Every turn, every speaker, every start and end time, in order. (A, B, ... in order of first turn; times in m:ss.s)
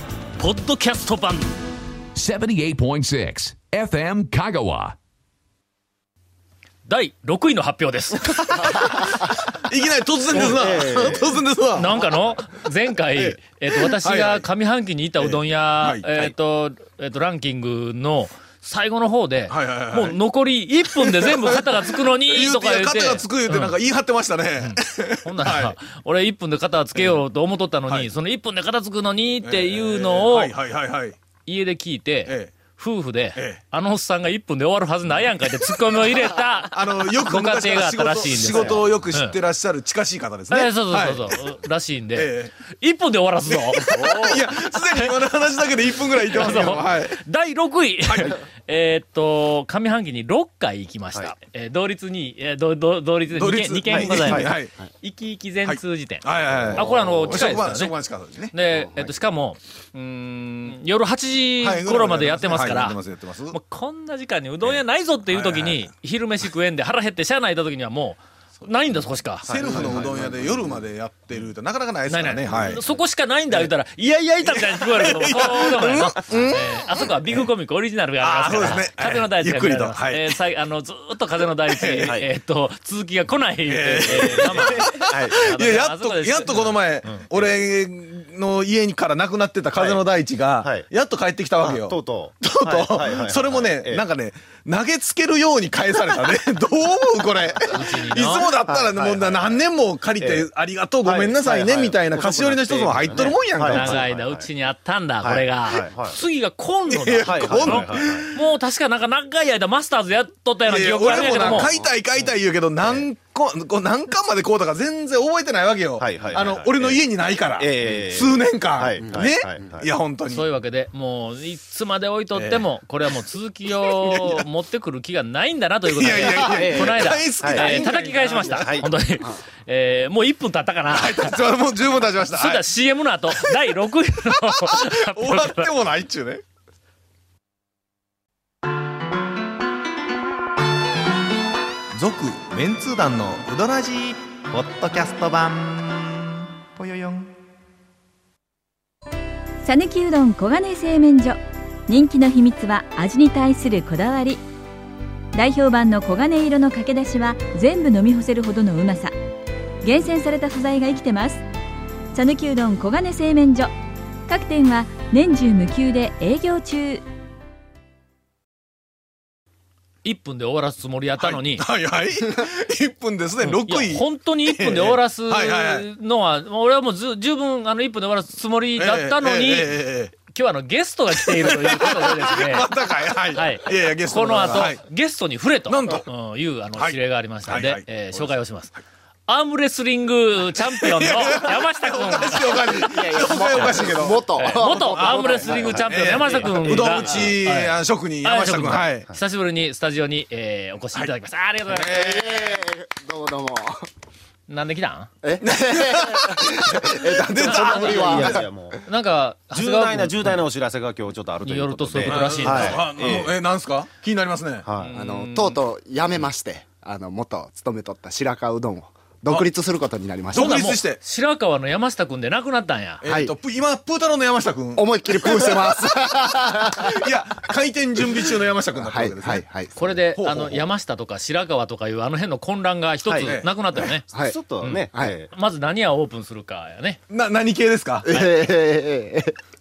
0:00.4-0:01.5 A
0:02.2-0:05.0 B
0:06.9-0:09.2 A
0:09.2-0:12.2 C
0:10.3-0:11.4 D
0:11.7-0:23.8 A
0:13.2-0:14.5 C
0:15.2-0:16.3 C
0:19.5-0:20.2 C
0:21.0-0:25.8 C
0:24.6-0:30.6 A
0:29.4-0:31.2 C
0:31.4-0:39.4 A
0:32.3-0:32.5 C
0:33.4-0:33.6 C
0:36.7-0:41.4 C
0:38.3-0:38.9 D
0:40.5-0:44.4 A
0:42.2-0:42.5 C
0:43.5-0:47.2 C
0:44.9-0:45.2 A
0:46.2-0:57.9 A
0:48.1-0:48.4 C
0:53.3-0:54.7 C
0:53.8-0:54.5 D
0:55.6-0:58.5 C
0:58.5-1:09.5 A
0:58.7-0:59.1 E
1:01.6-1:03.6 C
1:05.3-1:05.8 C
1:09.4-1:12.8 C
1:09.5-1:10.8 D
1:12.1-1:24.9 A
1:12.5-1:13.0 D
1:13.8-1:15.3 D
1:14.4-1:16.8 C
1:18.2-1:20.4 C
1:18.6-1:18.8 D
1:21.7-1:22.2 C
1:22.0-1:22.3 D
1:23.7-1:44.1 C
1:24.1-1:25.4 D
1:25.4-1:27.2 A
1:29.7-1:30.1 D
1:30.6-1:30.9 D
1:31.6-1:34.0 D
1:37.7-1:38.5 A
1:38.6-1:39.6 D
1:40.2-1:40.5 D
1:41.0-1:44.5 D
1:43.7-1:51.7 A
1:45.2-1:46.2 D
1:46.9-1:48.4 C
1:47.2-1:48.3 D
1:50.7-2:00.4 C
1:51.0-1:53.1 D
1:56.0-1:57.0 D
1:57.6-1:59.9 D
1:59.0-1:59.7 E
2:00.3-2:11.4 A
2:02.4-2:02.7 C
2:03.8-2:04.5 C
2:05.9-2:08.8 C
2:06.1-2:07.8 D
2:08.4-2:08.9 D
2:10.9-2:12.7 C
2:12.3-2:15.7 A
2:13.3-2:13.6 C
2:14.4-2:16.4 C
2:22.0-2:27.3 C
2:29.6-2:34.4 F
2:35.3-2:39.2 F
2:39.8-2:41.4 F
2:42.1-2:43.7 F
2:44.3-2:47.0 F
2:50.0-2:51.7 A
2:51.2-2:55.9 C
2:53.4-3:02.7 A
2:58.8-3:00.1 C
3:01.1-3:04.8 C
3:03.3-3:13.8 A
3:05.7-3:06.1 C
3:06.8-3:08.3 C
3:10.6-3:19.1 C
3:12.3-3:15.8 E
3:14.4-3:22.0 A
3:15.4-3:17.4 D
3:21.7-3:22.4 C
3:21.8-3:23.9 E
3:24.5-3:25.1 A
3:25.2-3:28.5 E
3:25.4-3:28.1 C
3:27.4-3:28.8 D
3:28.9-3:30.5 A
3:29.5-3:33.4 D
3:31.4-3:32.9 A
3:32.0-3:35.4 C
3:34.6-3:34.9 D
3:34.8-3:35.4 A
3:34.9-3:40.6 E
3:40.3-3:41.0 C
3:40.3-3:43.0 A
3:43.0-3:45.9 C
3:43.0-3:43.3 E
3:44.8-3:47.1 E
3:46.8-3:49.4 C
3:48.1-3:50.6 E
3:49.8-3:54.0 A
3:50.2-3:50.5 C
3:53.1-3:53.3 D
3:54.0-3:55.3 D
3:54.1-3:54.4 E
3:54.6-3:57.0 A
3:57.1-3:58.1 C
3:58.0-3:59.4 E
3:58.1-3:58.4 A